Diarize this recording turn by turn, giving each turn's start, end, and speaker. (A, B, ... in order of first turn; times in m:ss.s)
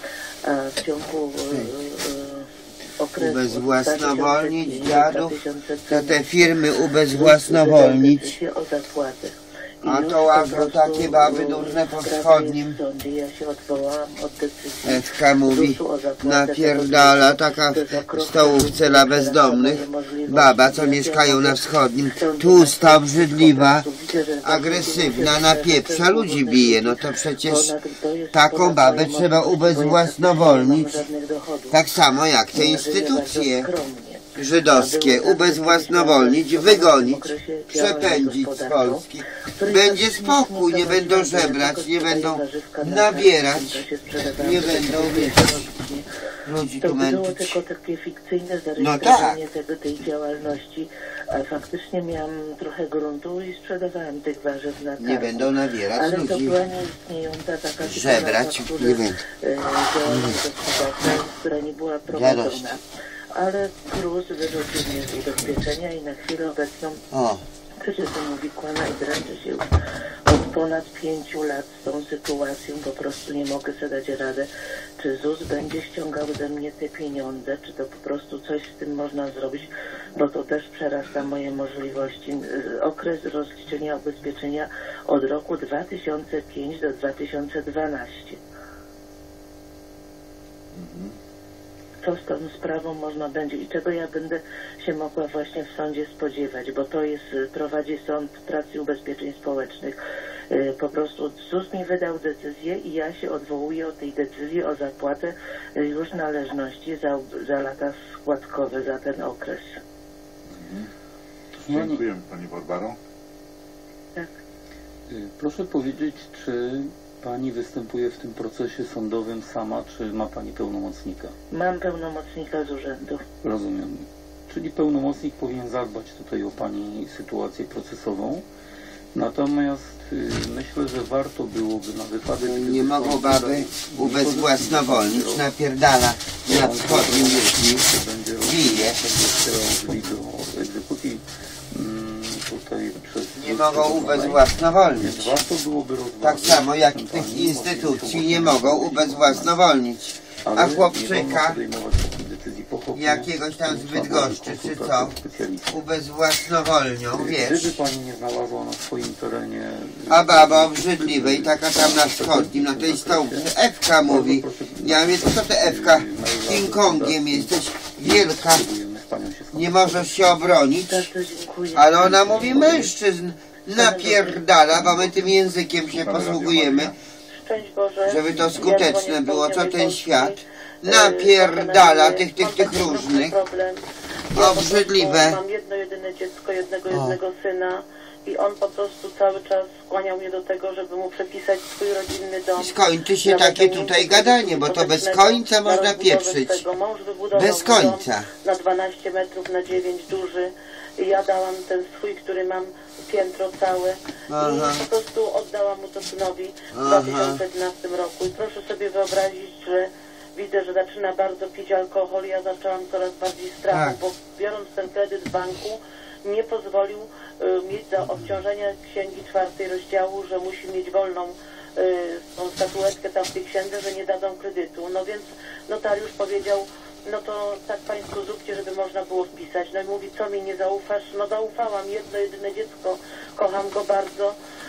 0:00.4-0:31.8 A
0:03.2-0:08.3 B
0:09.8-0:12.8 B
0:14.8-0:23.8 B
0:24.4-0:27.7 B
0:28.3-0:31.0 B
0:31.7-0:33.7 B
0:32.5-0:46.1 A
0:34.3-0:43.8 B
0:44.4-0:45.6 B
0:46.4-0:47.6 B
0:46.8-1:02.8 A
0:48.8-0:49.4 B
0:55.0-0:56.6 B
0:57.8-0:59.2 B
1:00.1-1:00.4 B
1:02.1-1:02.7 B
1:03.3-1:07.0 A
1:07.1-1:07.4 B
1:07.8-1:09.7 A
1:10.2-1:28.4 A
1:30.7-1:31.1 C
1:32.0-1:40.0 A
1:40.5-1:49.8 A
1:50.5-1:50.9 C
1:51.6-1:52.0 D
1:51.6-1:53.0 C
1:55.1-2:01.3 D
2:01.5-2:03.2 A
2:03.4-2:08.4 D
2:09.1-2:15.4 D
2:12.4-2:17.8 B
2:16.5-2:29.5 D
2:18.4-2:19.0 B
2:23.4-2:25.3 B
2:26.2-2:31.6 B
2:30.4-2:35.8 D
2:32.9-2:35.1 B
2:35.7-2:37.7 B
2:37.1-2:43.5 D
2:40.1-2:48.6 B
2:44.0-2:50.4 D
2:49.5-2:51.1 B
2:50.8-2:52.9 A
2:51.7-2:56.9 B
2:52.0-2:52.9 D
2:53.7-2:54.4 A
2:54.8-2:55.2 C
2:55.8-2:57.0 C
2:57.3-3:03.8 E
2:58.0-3:03.3 B
3:04.3-3:05.4 B
3:04.3-3:12.7 E
3:06.9-3:07.2 B
3:12.6-3:16.6 B
3:13.2-3:54.4 E
3:17.3-3:18.3 B
3:24.3-3:24.8 B
3:26.7-3:27.4 B
3:33.7-3:34.0 B